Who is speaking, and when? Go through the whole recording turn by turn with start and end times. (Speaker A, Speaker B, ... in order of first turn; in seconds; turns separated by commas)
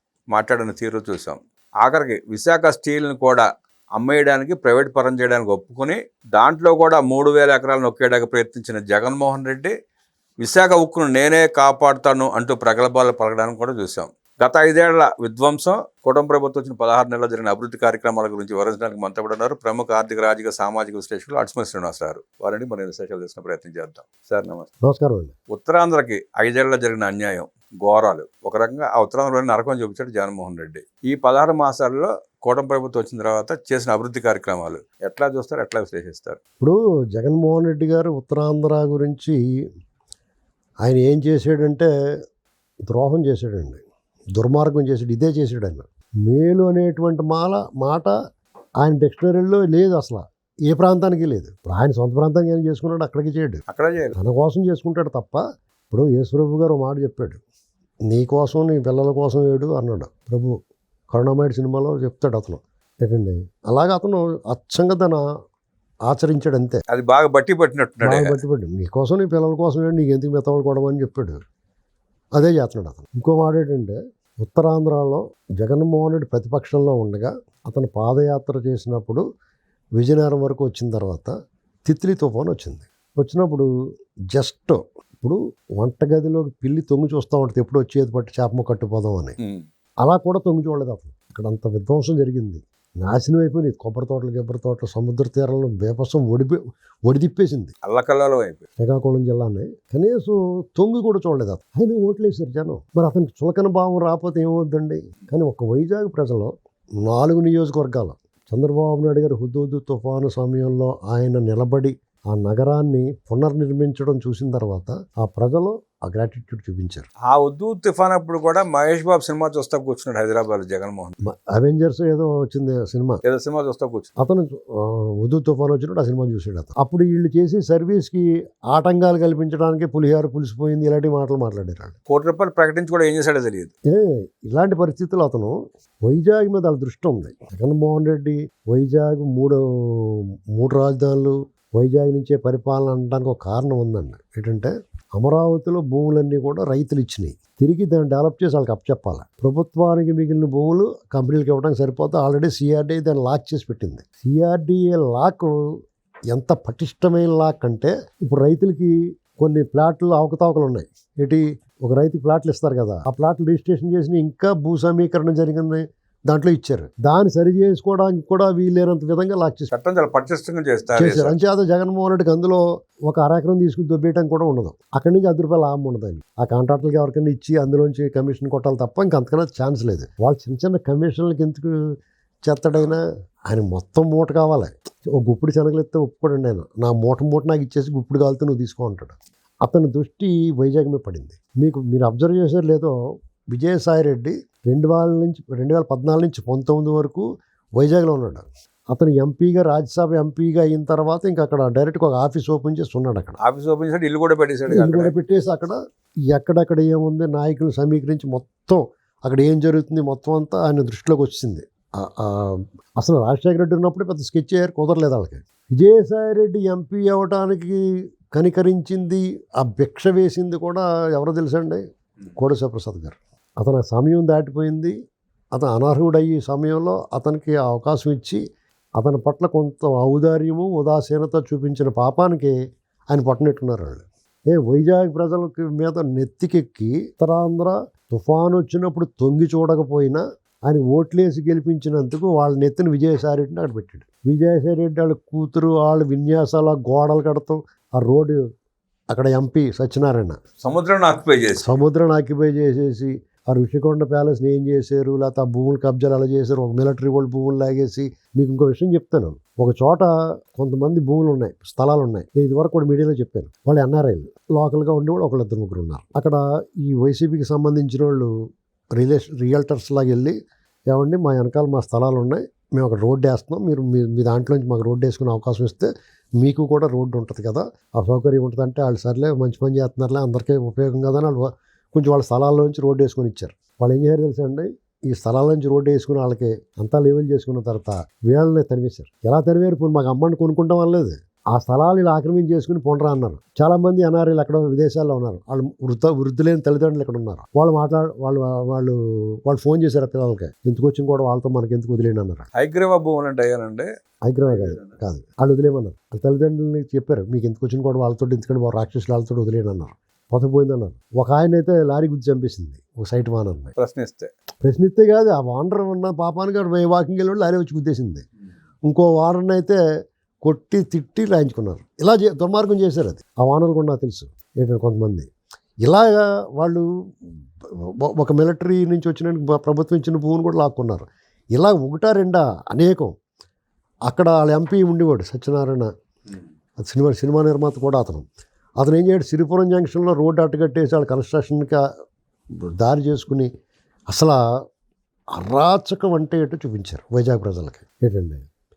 Speaker A: 0.3-9.7, Speaker A: 10.4-24.7, Speaker B: 24.9-25.3, Speaker A: 25.5-36.4, Speaker B: 36.6-39.4, Speaker B: 40.8-41.9, Speaker B: 42.9-43.8, Speaker B: 44.4-48.1, Speaker B: 48.8-53.6, Speaker A: 53.7-54.1, Speaker B: 54.2-57.4, Speaker B: 58.1-60.5, Speaker B: 61.1-65.2, Speaker B: 66.1-66.8, Speaker A: 66.9-68.3, Speaker B: 68.0-71.4, Speaker B: 72.4-79.2, Speaker B: 80.0-81.3, Speaker B: 81.9-83.7, Speaker B: 84.3-89.4, Speaker B: 90.0-97.7, Speaker A: 97.8-98.6, Speaker B: 98.8-117.1, Speaker A: 117.3-121.1, Speaker B: 121.3-123.2, Speaker A: 123.2-124.1, Speaker B: 124.2-132.0, Speaker A: 132.1-133.7, Speaker B: 133.9-155.5, Speaker B: 156.3-169.7, Speaker A: 169.7-171.4, Speaker B: 171.0-181.7, Speaker B: 182.4-192.9, Speaker B: 193.5-197.3, Speaker B: 197.8-203.4, Speaker A: 203.4-205.1, Speaker B: 204.7-205.8, Speaker B: 206.3-217.8, Speaker B: 218.3-221.8, Speaker B: 222.4-224.9, Speaker B: 225.5-228.4, Speaker B: 229.0-232.6, Speaker B: 233.1-248.4, Speaker B: 249.1-250.4, Speaker A: 250.6-251.7, Speaker B: 251.6-268.3, Speaker B: 268.9-270.4, Speaker B: 270.9-302.5, Speaker A: 302.6-303.9, Speaker B: 304.2-313.7, Speaker A: 304.4-305.0, Speaker A: 313.8-314.3, Speaker B: 314.6-318.2, Speaker B: 318.9-319.8, Speaker B: 320.4-325.3, Speaker B: 325.8-333.1, Speaker B: 334.1-335.9, Speaker B: 336.8-338.3, Speaker B: 338.8-341.8, Speaker B: 342.8-343.5, Speaker B: 344.1-344.4, Speaker B: 345.4-348.4